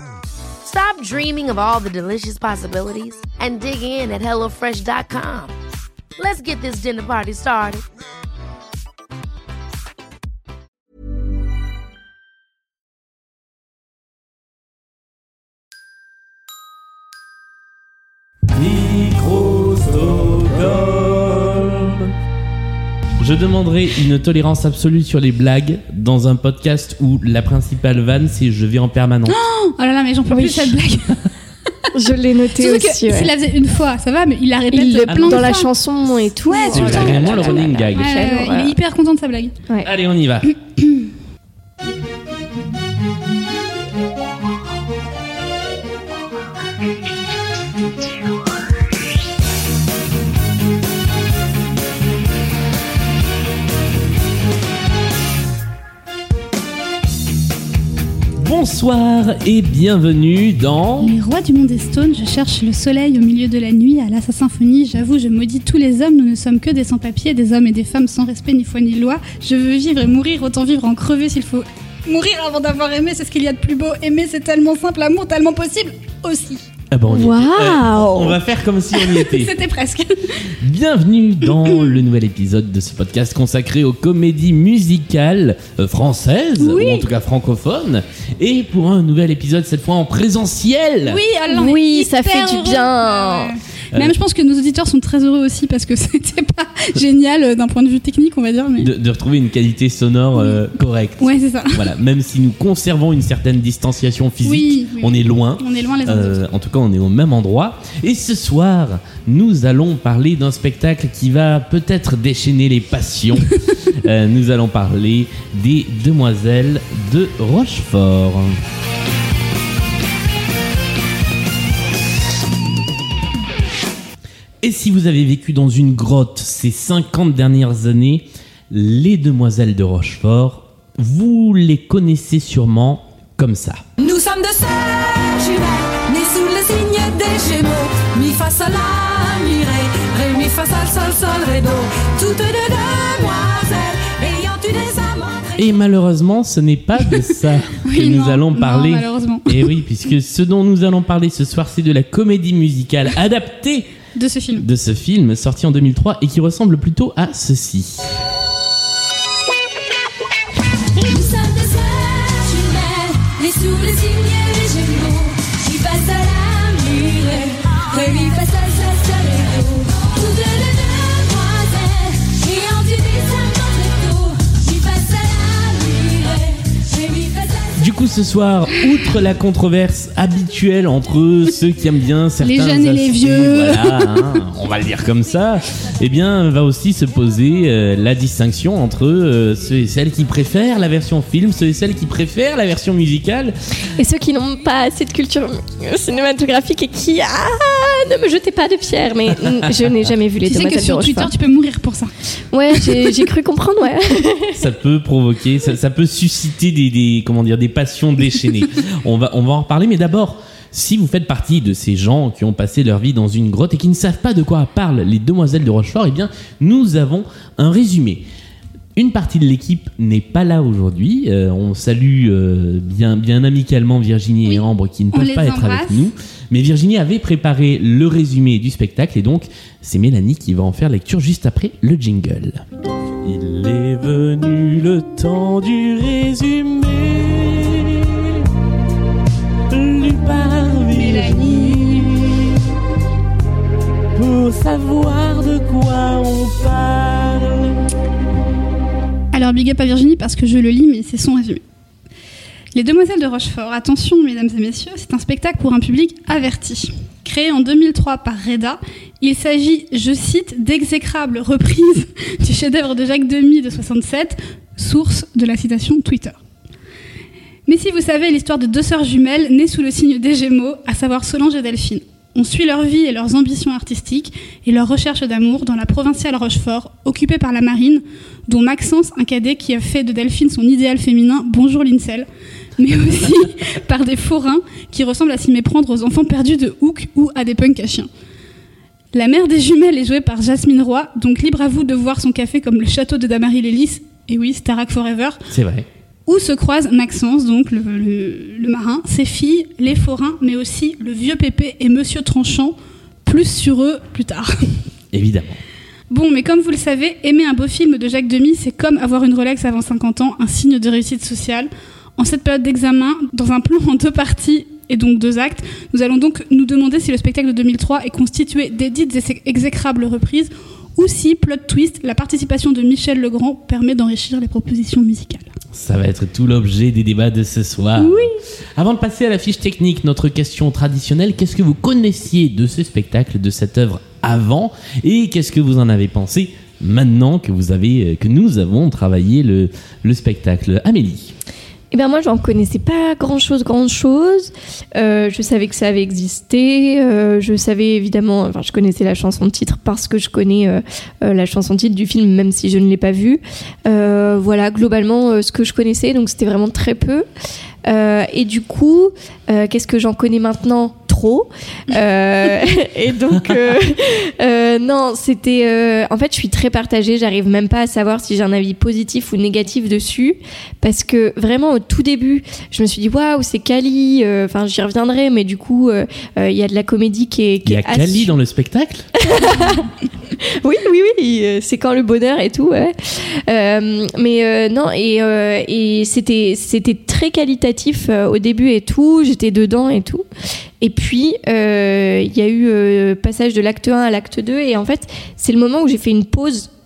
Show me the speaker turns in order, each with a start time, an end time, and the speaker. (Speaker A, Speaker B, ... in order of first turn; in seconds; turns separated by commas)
Speaker A: 0.6-5.5, Speaker A: 6.2-7.8, Speaker B: 18.5-22.1, Speaker B: 23.2-29.4, Speaker C: 29.3-31.2, Speaker D: 30.3-30.8, Speaker D: 31.9-33.3, Speaker C: 32.6-35.7, Speaker D: 34.7-38.8, Speaker B: 35.0-35.5, Speaker C: 36.5-39.5, Speaker B: 36.7-38.2, Speaker B: 39.8-40.5, Speaker B: 58.4-61.1, Speaker C: 61.0-76.6, Speaker B: 76.9-79.5, Speaker D: 77.1-78.4, Speaker C: 78.9-80.4, Speaker B: 80.6-91.2, Speaker D: 86.6-87.1, Speaker C: 91.0-98.9, Speaker D: 91.4-93.5, Speaker B: 98.8-118.6, Speaker C: 101.2-101.9, Speaker C: 104.4-106.4, Speaker B: 124.6-133.8, Speaker E: 134.0-145.7, Speaker B: 145.6-153.9, Speaker C: 147.8-149.7, Speaker C: 154.2-154.7, Speaker B: 154.6-158.1, Speaker E: 161.0-177.8, Speaker B: 177.8-193.5, Speaker C: 182.4-184.2, Speaker D: 194.0-201.3, Speaker C: 200.4-202.1, Speaker D: 202.5-204.6, Speaker B: 204.5-218.2, Speaker B: 219.0-232.6, Speaker C: 224.5-226.0, Speaker B: 233.2-238.5, Speaker B: 239.7-242.7, Speaker C: 240.9-242.0, Speaker B: 244.2-247.8, Speaker C: 249.3-251.6, Speaker C: 252.7-266.4, Speaker C: 267.7-282.3, Speaker C: 282.8-288.1, Speaker C: 289.1-295.4, Speaker B: 295.5-295.9, Speaker C: 296.3-304.7, Speaker B: 305.1-305.6, Speaker C: 306.1-325.5, Speaker B: 325.7-341.3, Speaker C: 328.0-328.4, Speaker D: 341.9-357.2, Speaker D: 357.9-378.4, Speaker B: 377.6-379.1, Speaker D: 379.2-390.2, Speaker D: 390.8-396.7